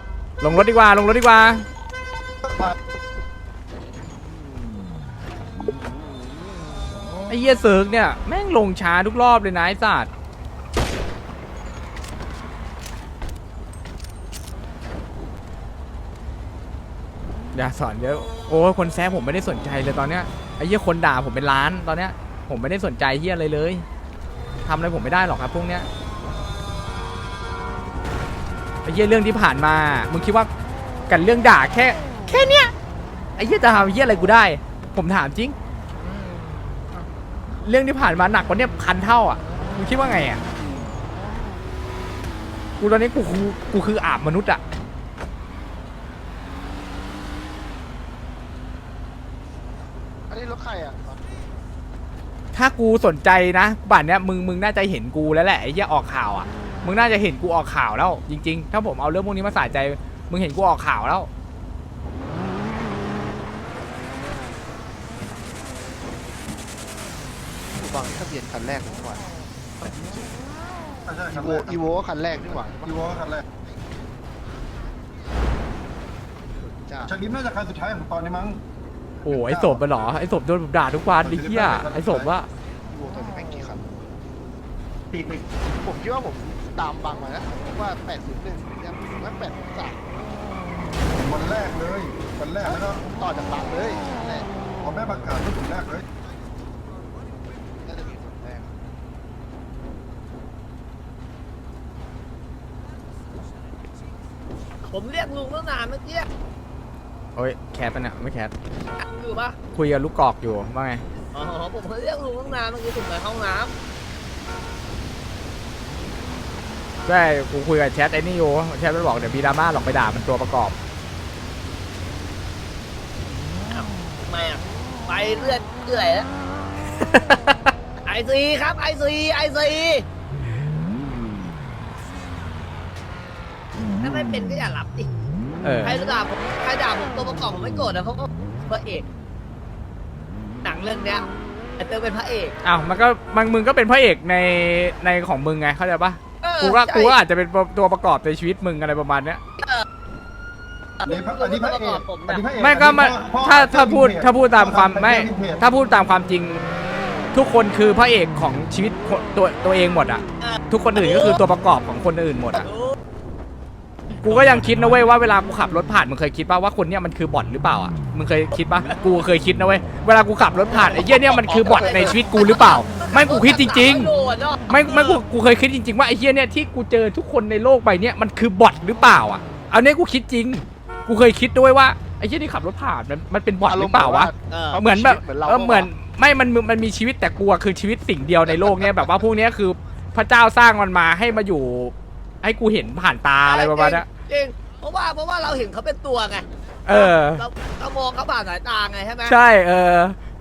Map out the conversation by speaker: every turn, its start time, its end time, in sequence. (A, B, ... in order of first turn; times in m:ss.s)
0:00.4-0:01.6 A
0:07.3-0:10.1 A
0:17.5-0:23.8 A
0:24.6-0:25.9 A
0:28.8-0:30.5 A
0:31.1-0:32.7 A
0:33.4-0:35.6 A
0:37.6-0:40.4 A
0:42.8-0:44.6 A
0:50.3-0:51.3 B
0:52.5-1:01.3 A
1:07.8-1:09.2 B
1:11.3-1:13.0 B
1:16.8-1:17.1 B
1:17.1-1:18.6 C
1:19.2-1:22.5 A
1:21.4-1:22.2 C
1:22.9-1:23.9 B
1:25.8-1:30.1 B
1:31.3-1:32.8 C
1:32.6-1:34.5 B
1:37.8-1:38.7 B
1:44.9-1:46.3 D
1:47.4-1:48.5 A
1:49.0-1:49.6 D
1:49.7-1:51.0 A
1:51.3-1:53.7 D
1:57.0-2:00.7 A
2:03.7-2:06.2 D
2:07.1-2:07.7 A
2:08.0-2:10.0 D
2:14.0-2:15.1 D
2:15.6-2:16.0 A
2:15.8-2:19.0 D
2:20.6-2:21.3 D
2:21.8-2:22.5 D
2:22.6-2:29.4 A
2:26.4-2:27.2 D
2:31.0-2:32.5 D
2:31.0-2:34.1 C
2:32.5-2:36.6 A
2:34.8-2:35.6 C
2:37.3-2:42.6 A
2:40.4-2:41.4 D
2:42.5-2:42.9 D
2:44.2-2:54.1 A
2:50.7-2:55.2 D
2:51.5-2:52.2 B
2:54.7-3:14.1 A
3:03.6-3:05.9 B
3:04.5-3:04.8 D
3:08.5-3:08.8 B
3:13.4-3:19.4 D
3:16.8-3:17.4 A
3:19.2-3:20.2 A